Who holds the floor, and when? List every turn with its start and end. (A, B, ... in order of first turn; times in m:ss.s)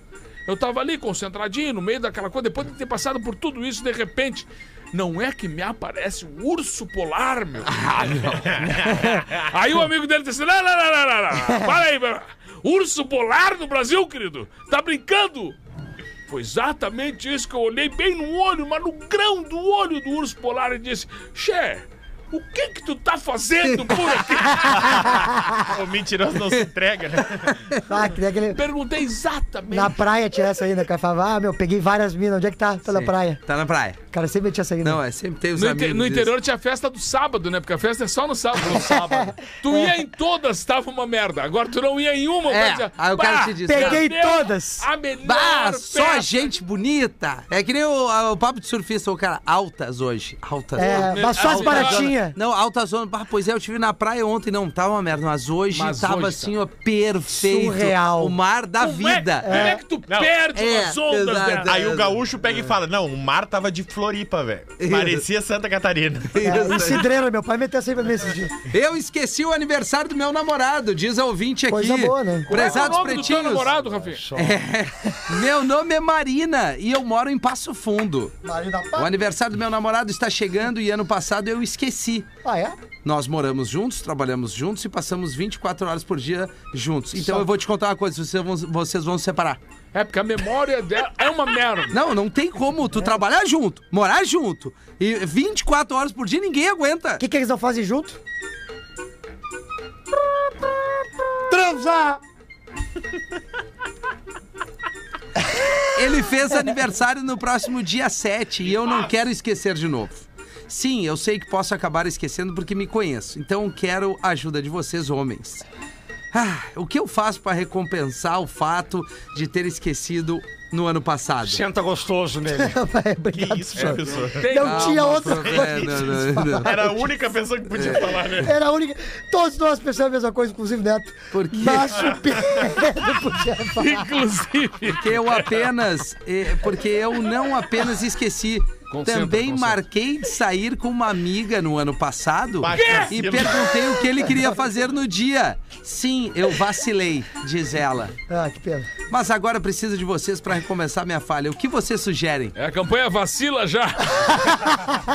0:00.5-0:15.6 A
0:07.7-0:08.6 B
0:08.4-0:09.4 C
0:16.3-0:25.2 A
0:24.7-0:25.3 D
0:25.6-0:27.6 C
0:27.5-0:27.8 B
0:27.9-0:28.6 D
0:28.5-0:30.0 A
0:29.7-0:33.4 D
0:32.9-0:34.0 B
0:34.1-0:35.0 D
0:34.8-0:36.3 B
0:35.6-0:46.5 A
0:38.7-0:40.0 D
0:42.5-0:44.0 B
0:43.7-0:44.9 D
0:45.2-0:59.7 B
0:50.8-0:52.4 D
0:50.8-0:52.1 A
0:55.7-0:56.5 A
0:57.3-0:58.4 D
0:58.8-1:01.8 A
0:59.4-0:59.8 D
1:00.1-1:00.3 C
1:00.6-1:02.7 B
1:01.7-1:06.7 C
1:04.8-1:05.3 B
1:06.3-1:07.1 B
1:06.4-1:08.6 D
1:08.7-1:13.7 B
1:11.7-1:12.5 D
1:12.5-1:14.2 A
1:13.9-1:14.6 E
1:14.4-1:18.3 B
1:18.4-1:19.3 D
1:19.0-1:22.3 B
1:22.4-1:22.8 D
1:23.0-1:29.6 B
1:27.1-1:27.5 D
1:29.9-1:32.0 A
1:31.9-1:37.2 B
1:37.2-1:38.2 D
1:41.3-1:42.2 D
1:45.9-1:55.6 B
1:56.3-2:01.6 B
2:01.4-2:02.8 E
2:02.5-2:07.1 D
2:03.3-2:04.4 C
2:04.4-2:05.6 A
2:04.6-2:06.8 B
2:05.3-2:08.5 C
2:07.8-2:08.4 B
2:08.4-2:14.2 D
2:11.3-2:12.1 B
2:13.8-2:15.7 A
2:14.9-2:28.1 B
2:18.9-2:19.8 A
2:22.6-2:23.9 C
2:22.7-2:23.6 A
2:28.3-2:28.9 D
2:29.1-2:32.5 B
2:32.6-2:34.7 A